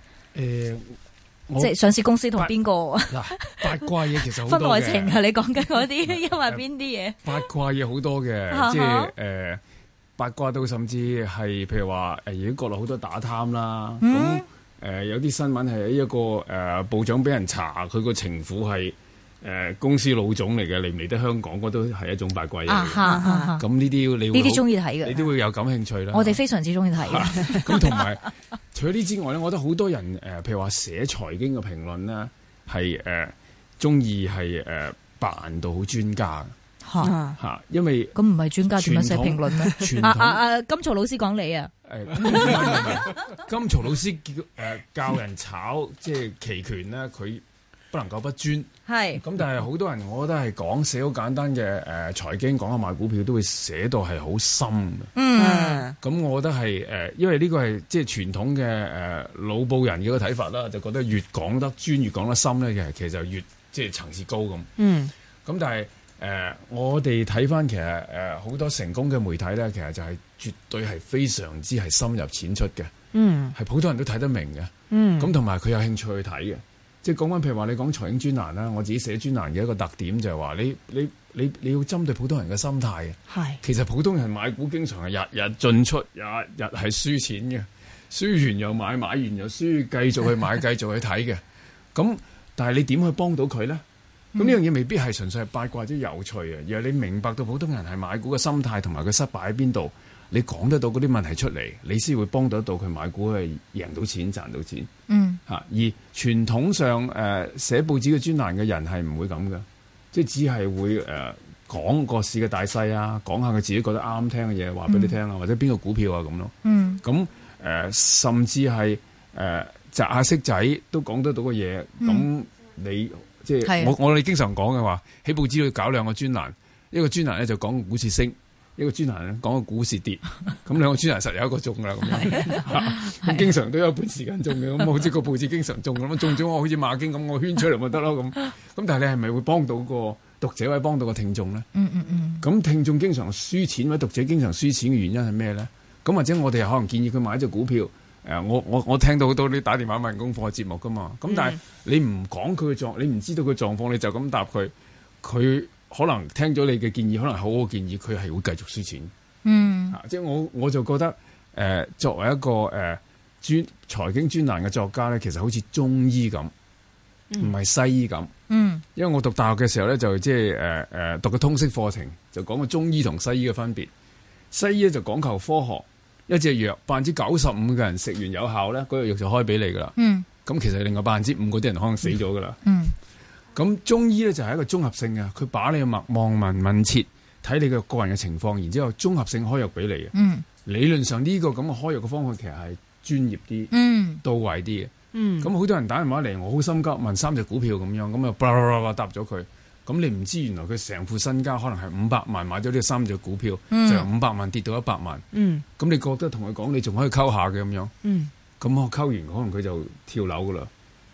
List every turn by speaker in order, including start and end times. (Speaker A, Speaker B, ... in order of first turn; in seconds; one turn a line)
Speaker A: 0.3-0.9
Speaker A: 1.5-1.7
Speaker B: 1.6-3.9
Speaker A: 3.1-5.2
Speaker B: 4.4-7.4
Speaker A: 6.1-6.6
Speaker A: 7.2-9.6
Speaker B: 8.5-9.1
Speaker A: 10.2-23.0
Speaker B: 14.0-14.4
Speaker B: 22.7-23.6
Speaker C: 23.0-23.5
Speaker A: 23.6-26.4
Speaker B: 24.3-25.2
Speaker B: 26.1-28.1
Speaker A: 27.0-36.5
Speaker B: 36.8-37.1
Speaker C: 37.0-37.4
Speaker A: 37.4-38.1
Speaker B: 38.1-41.7
Speaker A: 38.7-40.4
Speaker A: 41.9-55.1
Speaker B: 42.5-42.8
Speaker B: 48.9-49.2
Speaker B: 55.1-55.9
Speaker C: 55.4-56.0
Speaker A: 56.0-64.7
Speaker C: 64.8-65.1
Speaker A: 65.4-72.9
Speaker C: 73.1-73.5
Speaker A: 73.5-91.4
Speaker C: 74.9-75.3
Speaker C: 83.3-83.6
Speaker A: 91.9-93.8
Speaker A: 94.4-104.9
Speaker B: 105.1-105.4
Speaker A: 105.5-141.7
Speaker B: 114.9-115.2
Speaker B: 116.6-117.0
Speaker B: 122.0-122.2
Speaker B: 123.6-123.9
Speaker B: 132.1-133.4
Speaker B: 141.7-142.4
Speaker A: 142.4-159.1
Speaker C: 151.3-151.6
Speaker B: 159.4-160.0
Speaker A: 159.9-166.5
Speaker A: 167.4-168.3
Speaker B: 168.5-168.8
Speaker A: 168.9-173.9
Speaker A: 174.5-182.6
Speaker B: 180.0-180.2
Speaker B: 182.6-182.9
Speaker A: 183.6-190.1
Speaker B: 190.1-190.4
Speaker A: 190.6-193.7
Speaker B: 193.7-194.2
Speaker A: 194.2-205.2
Speaker C: 195.1-195.5
Speaker B: 203.7-204.1
Speaker C: 205.3-205.6
Speaker A: 205.8-207.9
Speaker C: 208.0-208.3
Speaker A: 208.6-210.7